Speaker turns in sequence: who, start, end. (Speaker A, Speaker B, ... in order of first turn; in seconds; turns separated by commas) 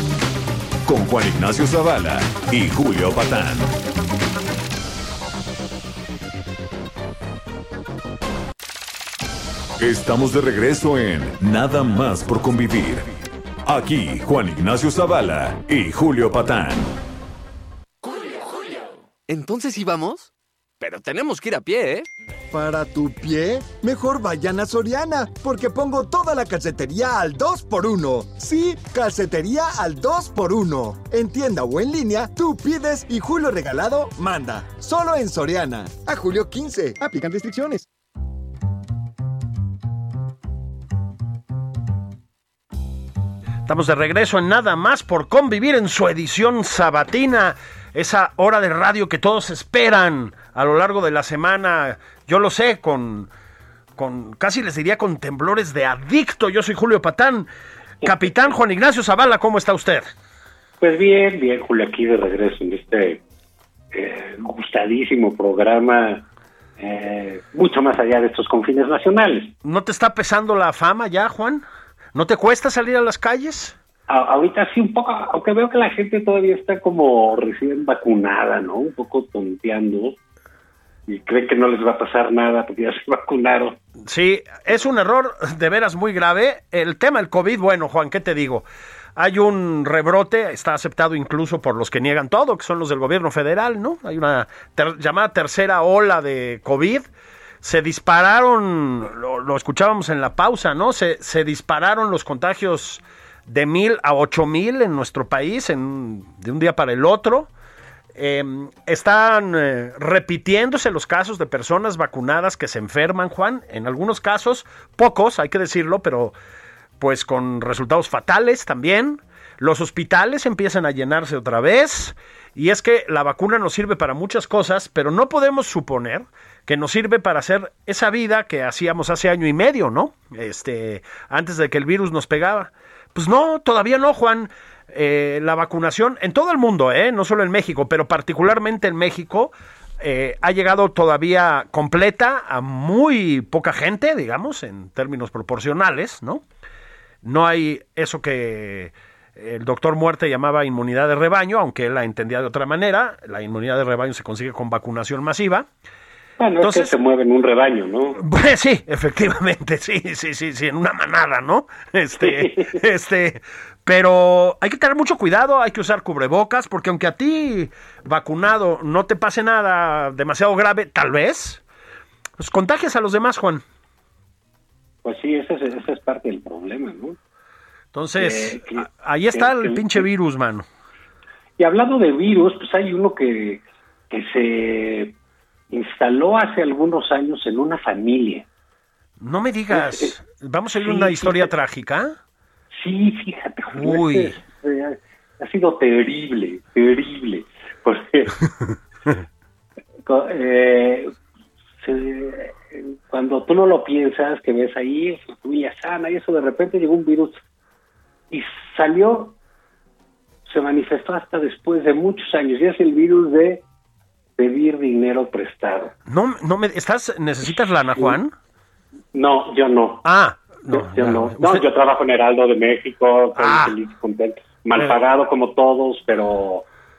Speaker A: 0.8-3.7, Speaker A: 9.8-13.0, Speaker A: 13.7-16.9, Speaker B: 19.3-22.1, Speaker C: 22.5-37.9, Speaker D: 43.6-53.3, Speaker D: 54.0-57.5, Speaker D: 58.0-60.0, Speaker E: 60.8-63.2, Speaker E: 63.9-66.2, Speaker E: 66.8-69.5, Speaker D: 69.6-73.8, Speaker E: 74.1-80.2, Speaker E: 81.1-83.8, Speaker D: 84.0-97.1, Speaker D: 97.6-107.5, Speaker D: 108.1-116.3, Speaker D: 117.0-146.4, Speaker D: 147.2-155.7, Speaker E: 156.4-158.2, Speaker D: 156.6-156.9, Speaker D: 158.2-171.6, Speaker E: 162.2-162.7, Speaker D: 172.4-173.6, Speaker E: 175.0-177.2, Speaker D: 177.9-180.7, Speaker E: 178.2-180.0, Speaker E: 181.6-185.2, Speaker E: 185.7-188.4, Speaker D: 189.2-192.1, Speaker E: 189.7-190.1, Speaker E: 190.8-191.5, Speaker E: 192.7-198.3, Speaker D: 193.8-194.3, Speaker E: 200.0-201.1, Speaker E: 201.8-207.4, Speaker E: 208.3-209.3, Speaker E: 210.4-213.6, Speaker E: 214.4-215.9, Speaker D: 216.1-218.3, Speaker E: 219.1-220.0, Speaker D: 220.0-221.7, Speaker E: 220.7-226.7, Speaker D: 223.3-223.8, Speaker D: 224.7-225.0